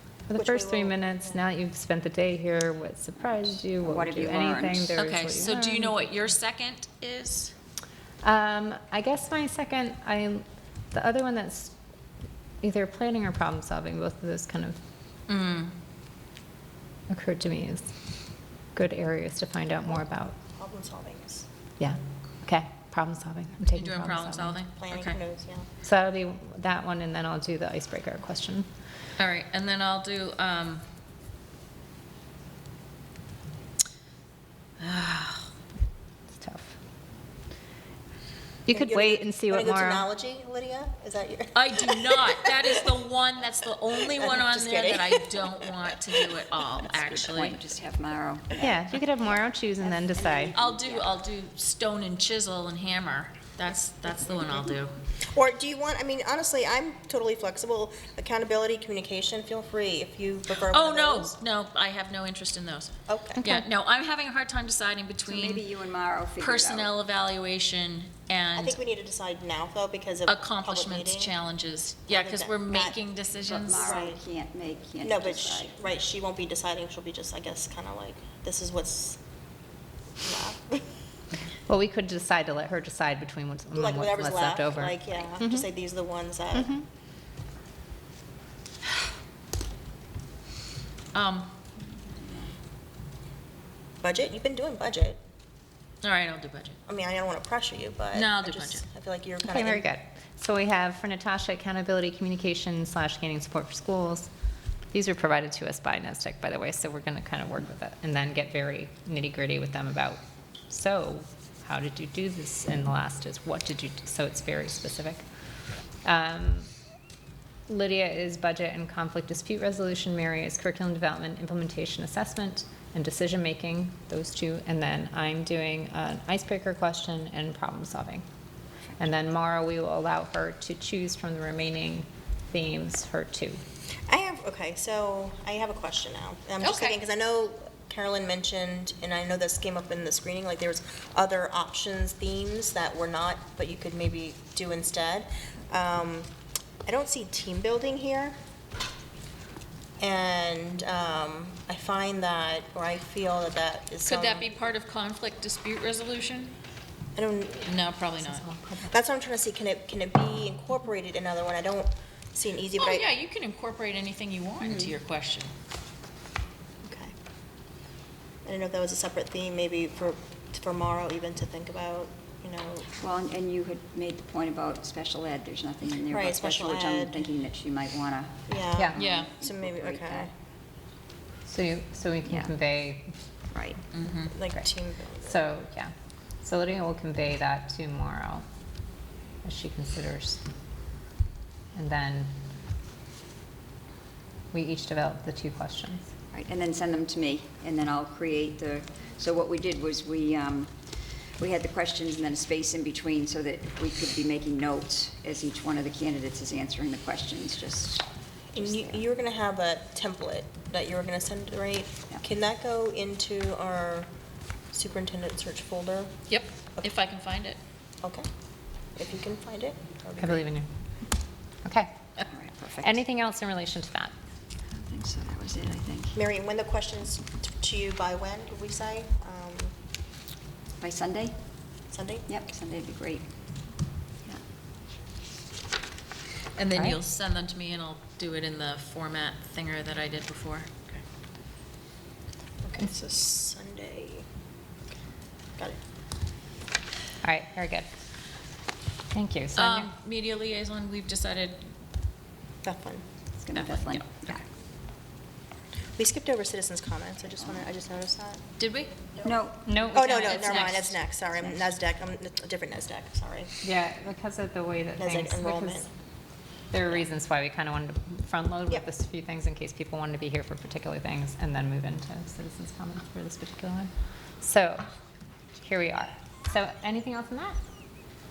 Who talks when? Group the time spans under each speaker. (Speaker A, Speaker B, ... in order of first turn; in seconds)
Speaker A: 0.3-6.3, 8.2-11.8, 12.6-14.8, 17.1-17.9, 18.8-20.4, 21.8-24.6, 25.8-28.7, 36.3-36.8, 38.7-40.1, 48.6-50.6, 63.4-63.7, 81.7-85.7, 86.5-86.9, 99.4-104.3, 104.9-115.3, 116.0-116.7, 117.7-128.2, 129.0-133.6, 158.2-158.9, 178.8-179.2, 181.5-183.1, 185.2-188.5, 189.4-190.4, 191.7-192.3, 194.5-196.1, 220.2-220.7, 221.6-221.9, 222.7-224.1, 247.2-247.9, 249.1-249.9, 259.6-261.0, 263.6-265.9, 266.7-274.9, 275.6-277.6
Speaker B: 0.3-1.4, 19.9-21.5, 24.7-25.7, 38.7-42.5, 44.0-45.8, 55.3-61.3, 63.1-63.4, 68.5-71.3, 72.1-73.0, 73.7-74.2, 75.0-79.2, 80.2-80.9, 83.7-86.8, 94.0-95.2, 96.9-99.8, 134.1-146.3, 146.8-148.4, 150.0-154.5, 157.2-157.8, 158.8-163.1, 166.8-167.1, 168.4-172.9, 176.1-177.2, 178.5-180.3, 184.3-185.4, 208.5-214.1, 214.7-216.1, 219.0-220.4, 226.1-229.7, 231.9-232.3, 242.6-244.2, 252.6-253.0, 256.0-258.4, 259.9-263.5, 265.0-265.9
Speaker C: 3.3-5.0, 46.9-51.2, 65.2-66.9, 73.5-75.8, 91.8-92.6, 164.6-164.9, 173.0-180.3, 182.2-182.6, 183.5-183.8, 196.3-209.0, 222.3-223.0, 224.7-226.2, 230.8-231.4, 232.3-233.3, 253.4-254.4, 259.2-259.8, 261.2-261.8
Speaker D: 5.0-7.5, 15.3-15.8, 23.7-25.2, 29.2-30.8, 34.8-35.5, 41.5-47.7, 50.5-55.0, 60.6-65.7, 66.4-68.8, 70.3-73.9, 91.1-91.5, 96.0-96.8, 98.1-98.9, 136.6-137.0, 154.1-156.5, 157.7-158.5, 162.8-165.5, 178.9-179.3, 183.9-184.4, 216.3-217.6, 236.6-240.7, 249.6-251.7, 253.5-254.1, 258.6-258.9